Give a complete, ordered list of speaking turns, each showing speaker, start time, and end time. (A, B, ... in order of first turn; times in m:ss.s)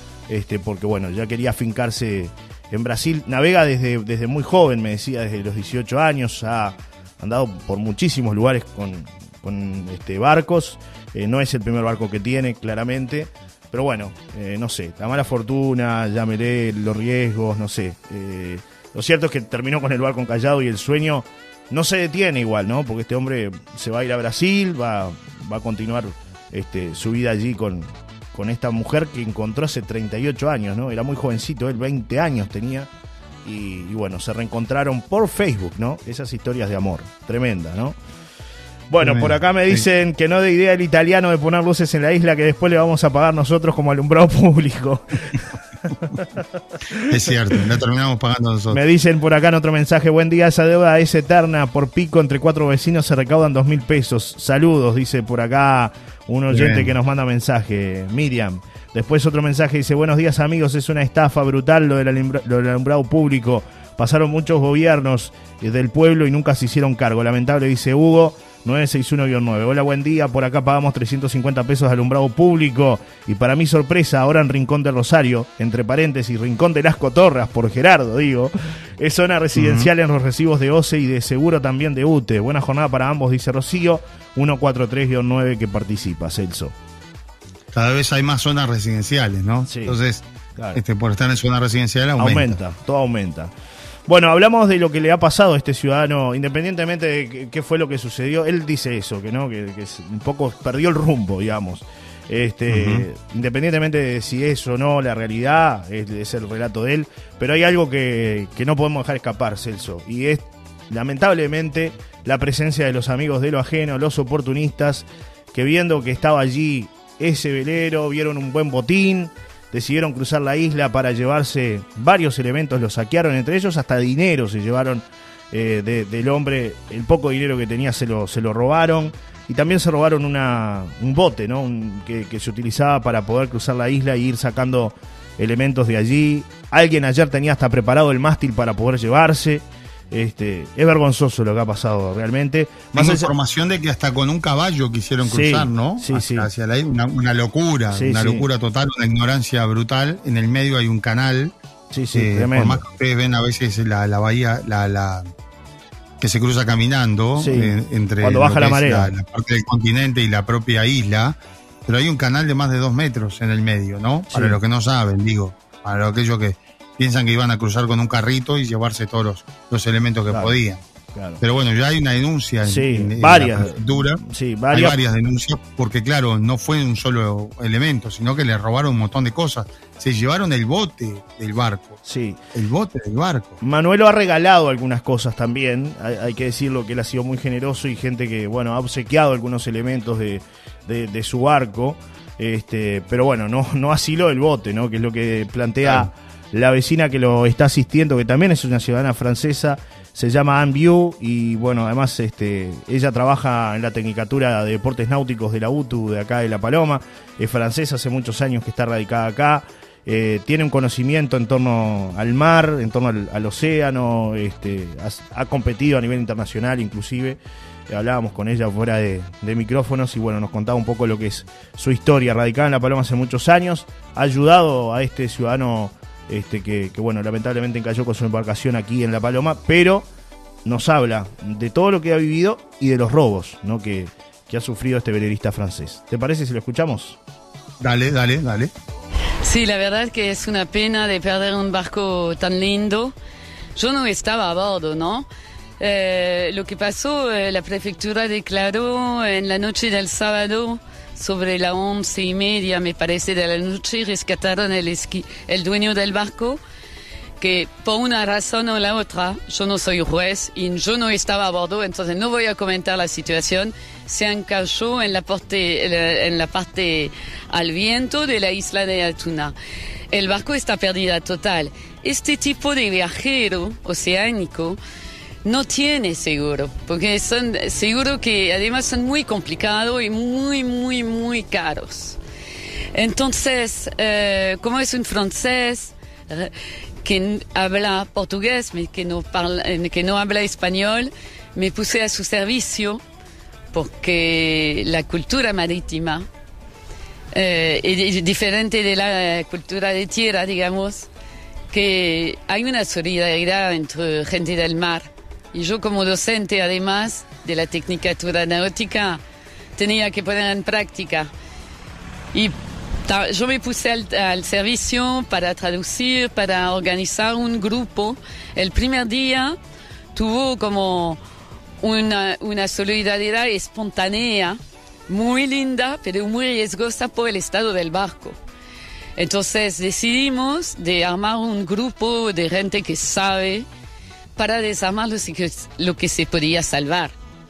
0:00.3-0:32.9 A
0:33.4-0:38.0 A
0:38.9-0:45.4 A
0:39.0-0:39.8 B
0:47.1-0:48.8 B
0:48.7-1:26.7 A
0:56.5-0:56.9 B
1:19.5-1:19.9 B
1:27.7-1:32.6 B
1:29.7-1:30.0 A
1:32.2-1:33.5 A
1:34.1-2:23.3 A
1:42.7-1:43.0 B
2:22.9-2:31.5 B
2:25.2-2:26.5 A
2:27.9-2:28.4 A
2:31.9-2:32.8 A
2:32.1-2:35.3 B
2:36.2-2:50.8 B
2:37.4-2:39.1 A
2:44.3-2:44.6 A
2:50.3-2:50.5 A
2:51.1-2:51.4 A
2:51.4-3:02.0 B
2:52.6-2:55.0 A
3:02.0-3:02.4 A
3:02.5-3:03.6 B
3:03.6-3:50.0 A
3:15.8-3:16.1 B
3:50.6-3:57.2 A
3:57.8-3:58.7 B
3:59.4-4:03.1 C
4:03.8-4:05.3 C
4:05.8-4:16.6 C
4:17.4-4:29.5 C
4:30.1-4:34.8 C
4:35.4-4:42.2 C
4:42.9-4:46.5 C
4:47.0-4:53.0 C
4:53.7-4:56.3 C
4:57.3-5:01.1 C
5:01.7-5:09.2 C
5:09.8-5:11.3 C
5:13.0-5:19.6 C
5:20.1-5:21.2 C
5:21.8-5:28.4 C
5:29.2-5:33.6 C
5:34.4-5:37.1 C